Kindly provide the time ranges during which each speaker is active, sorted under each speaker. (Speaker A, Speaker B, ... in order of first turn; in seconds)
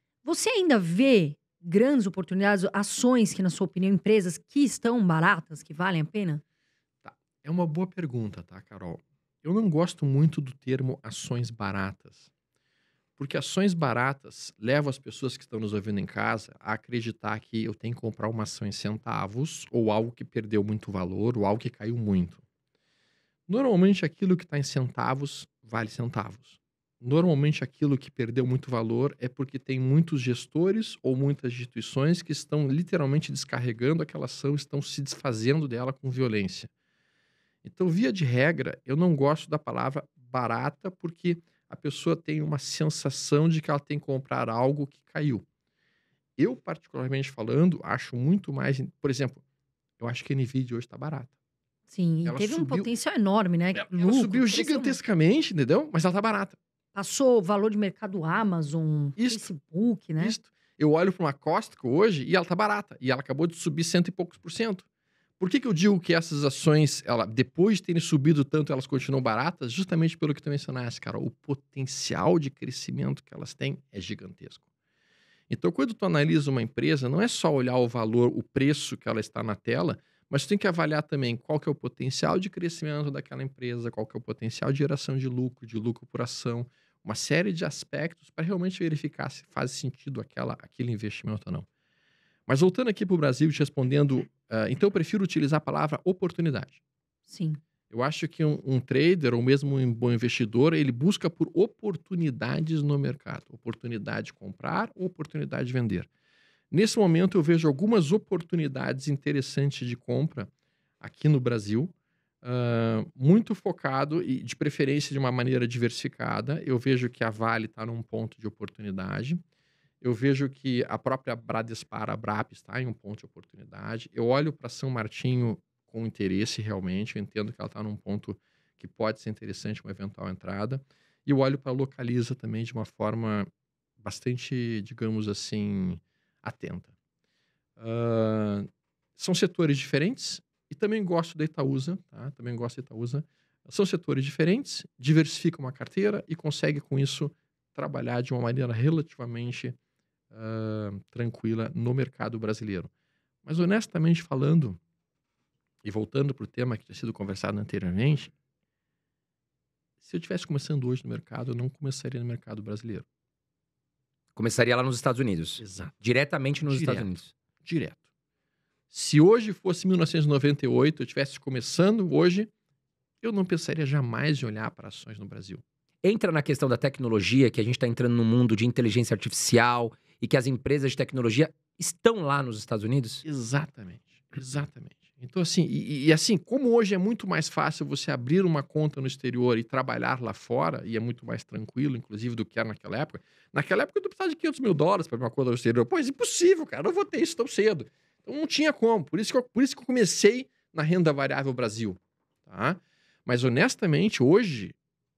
Speaker A: 0.2-6.4, 51.9-55.0, 56.9-60.4, 97.3-97.6
Speaker B: 7.0-12.3, 13.2-22.4, 23.5-36.7, 37.6-45.5, 46.4-49.4, 50.0-51.3, 52.2-52.9, 53.8-56.6, 59.2-59.5, 60.2-64.9, 65.4-74.7, 75.5-91.7, 92.5-96.8, 97.9-106.1, 106.7-119.4, 120.0-133.5, 134.0-136.9, 137.8-149.8, 150.3-152.9, 153.4-154.8, 155.8-158.3, 160.0-163.1, 165.6-165.9, 166.6-168.0, 168.9-172.5, 173.2-175.6, 183.2-204.8
Speaker C: 164.3-167.3, 176.0-183.2